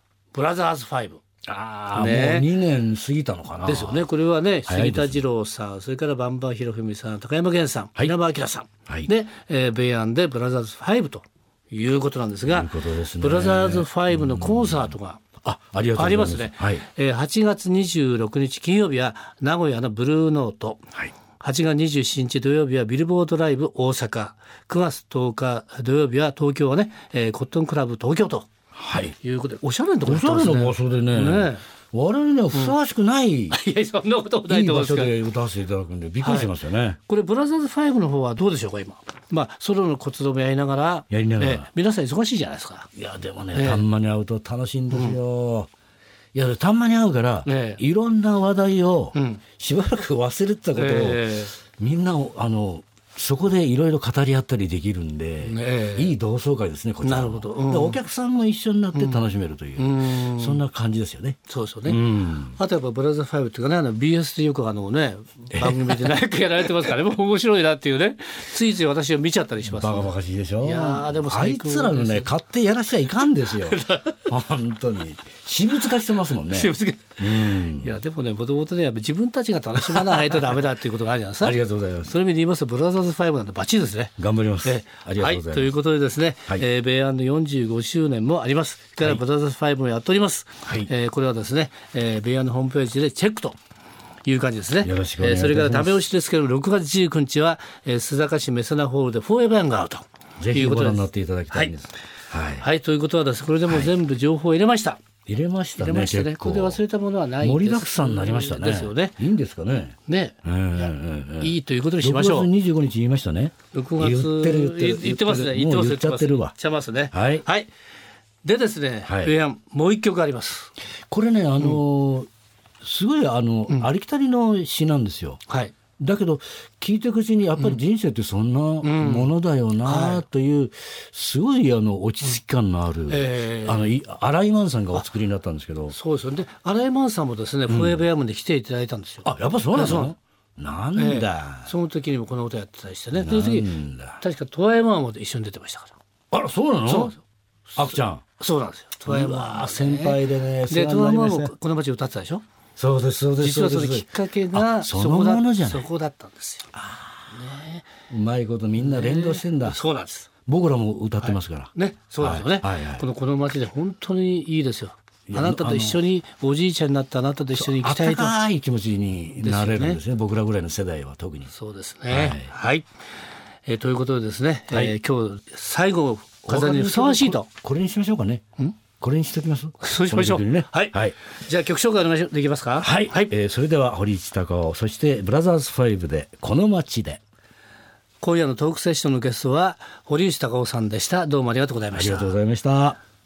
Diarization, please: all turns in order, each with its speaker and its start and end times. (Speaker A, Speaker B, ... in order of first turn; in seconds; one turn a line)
Speaker A: 0.3-1.2
Speaker B: 1.5-4.1
Speaker A: 1.9-2.5
Speaker A: 3.6-15.2
Speaker B: 4.7-5.2
Speaker B: 12.5-16.9
Speaker A: 15.9-20.9
Speaker A: 21.4-28.5
Speaker B: 28.8-29.2
Speaker A: 29.2-31.6
Speaker B: 30.1-33.6
Speaker A: 33.5-35.1
Speaker B: 34.5-37.0
Speaker A: 36.2-36.5
Speaker A: 37.1-42.9
Speaker B: 41.1-41.7
Speaker B: 43.0-45.7
Speaker A: 43.5-43.8
Speaker A: 44.9-45.2
Speaker B: 46.3-62.6
Speaker A: 47.5-47.8
Speaker A: 49.1-49.4
Speaker A: 50.8-51.5
Speaker A: 55.5-56.1
Speaker A: 57.0-58.0
Speaker A: 59.0-59.2
Speaker A: 59.8-60.6
Speaker A: 61.5-72.3
Speaker B: 65.5-66.1
Speaker B: 69.7-78.0
Speaker A: 73.6-74.2
Speaker A: 76.3-93.6
Speaker B: 81.4-82.2
Speaker B: 84.2-85.8
Speaker A: 94.2-101.7
Speaker B: 94.8-96.0
Speaker B: 100.4-102.7
Speaker A: 102.6-105.0
Speaker B: 103.7-103.9
Speaker B: 105.3-106.8
Speaker A: 105.8-109.2
Speaker B: 107.4-116.5
Speaker A: 110.1-112.5
Speaker A: 113.7-117.7
Speaker B: 117.1-117.4
Speaker A: 118.4-120.7
Speaker B: 119.0-119.3
Speaker B: 121.1-122.3
Speaker B: 122.8-125.4
Speaker A: 125.5-125.7
Speaker B: 126.0-135.9
Speaker A: 128.8-129.3
Speaker A: 129.8-130.2
Speaker A: 133.1-133.9
Speaker A: 135.9-140.1
Speaker B: 137.7-138.0
Speaker B: 139.2-141.7
Speaker A: 141.0-146.0
Speaker B: 143.1-144.2
Speaker B: 146.3-147.1
Speaker A: 146.9-147.2
Speaker B: 147.8-148.2
Speaker A: 147.8-152.4
Speaker B: 149.1-151.5
Speaker B: 152.8-155.9
Speaker A: 153.4-156.7
Speaker B: 156.7-157.3
Speaker A: 157.3-157.9
Speaker B: 158.1-159.8
Speaker A: 158.8-160.3
Speaker B: 160.5-163.1
Speaker A: 161.2-168.4
Speaker B: 165.3-166.0
Speaker B: 167.5-171.5
Speaker A: 169.4-170.0
Speaker A: 171.5-172.9
Speaker B: 172.1-172.5
Speaker A: 173.7-177.5
Speaker B: 174.7-175.0
Speaker B: 176.5-178.4
Speaker B: 179.0-181.2
Speaker A: 179.8-183.3
Speaker B: 182.8-187.2
Speaker A: 188.2-192.3
Speaker B: 191.9-193.0